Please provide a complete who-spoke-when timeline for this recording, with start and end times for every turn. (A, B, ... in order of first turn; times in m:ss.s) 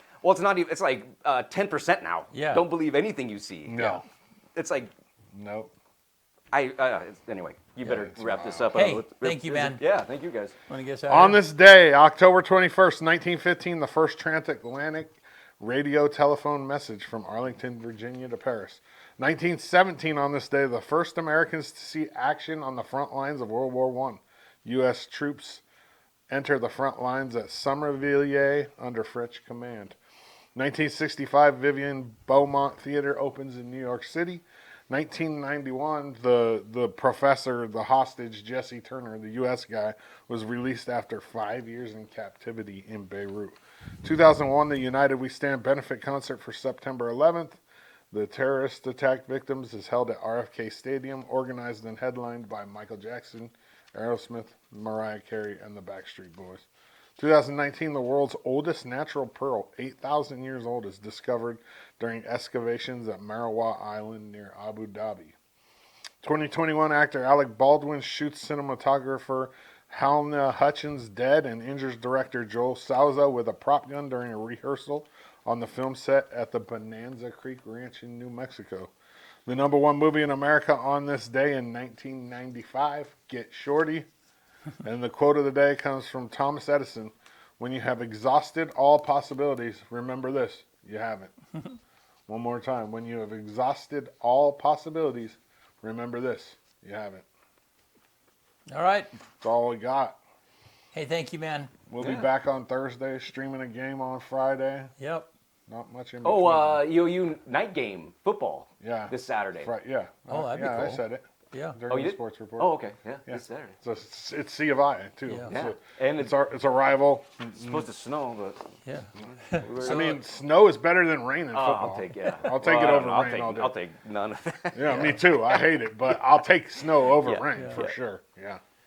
0:00.2-0:03.8 A
0:02.3-0:02.6 B
0:03.7-0:04.0 C
0:03.8-0:04.0 B
0:04.6-0:04.9 A
0:05.3-0:05.7 C
0:06.5-0:10.5 A
0:07.8-0:08.7 C
0:08.7-0:09.8 B
0:10.7-0:11.4 B
0:11.1-0:25.6 C
0:26.3-0:30.0 C
0:30.6-0:47.6 C
0:48.1-0:56.7 C
0:57.2-1:05.4 C
1:06.2-1:18.9 C
1:19.4-1:24.1 C
1:24.8-1:31.3 C
1:32.3-1:37.2 C
1:38.7-1:39.1 B
1:39.4-1:40.2 C
1:40.9-1:42.2 B
1:41.9-1:44.9 C
1:45.0-1:45.3 B
1:45.7-1:46.8 C
1:46.2-1:49.7 A
1:48.8-1:57.9 C
1:50.3-1:51.8 B
1:51.9-1:53.8 A
1:55.3-1:55.5 B
1:55.5-1:56.3 A
1:57.5-1:58.6 A
1:58.8-2:00.2 B
1:59.2-2:00.2 A
1:59.7-2:03.8 C
2:01.5-2:05.6 A
2:04.7-2:08.6 C
2:04.9-2:05.2 B
2:07.1-2:08.0 A
2:07.5-2:07.8 B